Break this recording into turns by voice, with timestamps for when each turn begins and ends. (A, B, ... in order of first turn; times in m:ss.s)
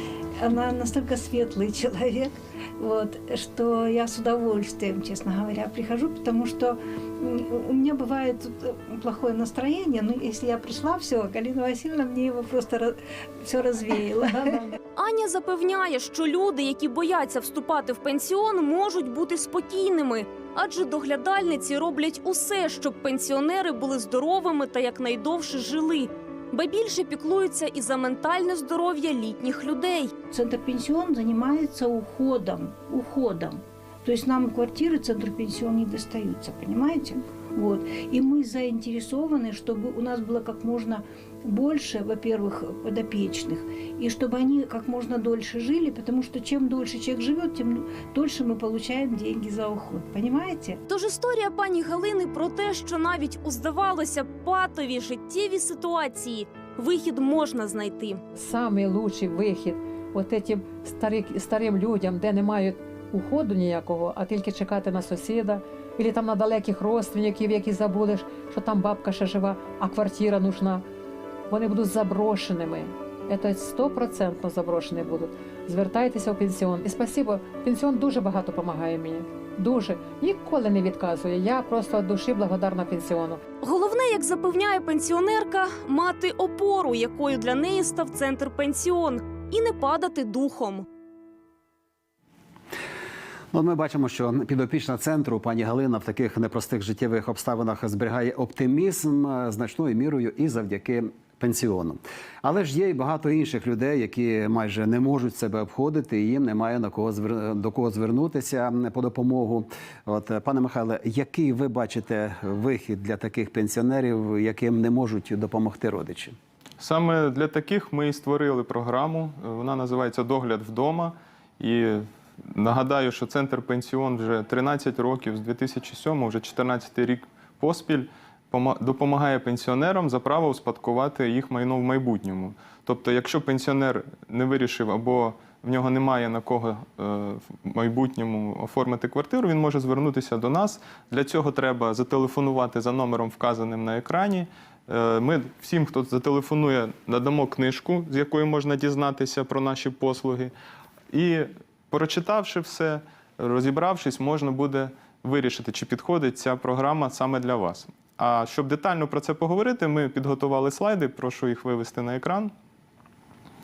0:00.4-0:14.7 A
0:15.0-0:30.1 B
0:30.3-0:50.8 A
0:50.9-0:58.2 B
0:58.3-1:10.8 C
1:11.5-1:23.4 C
1:23.6-1:30.9 B
1:33.5-1:56.4 D
1:56.8-2:30.5 E
2:31.1-2:42.5 E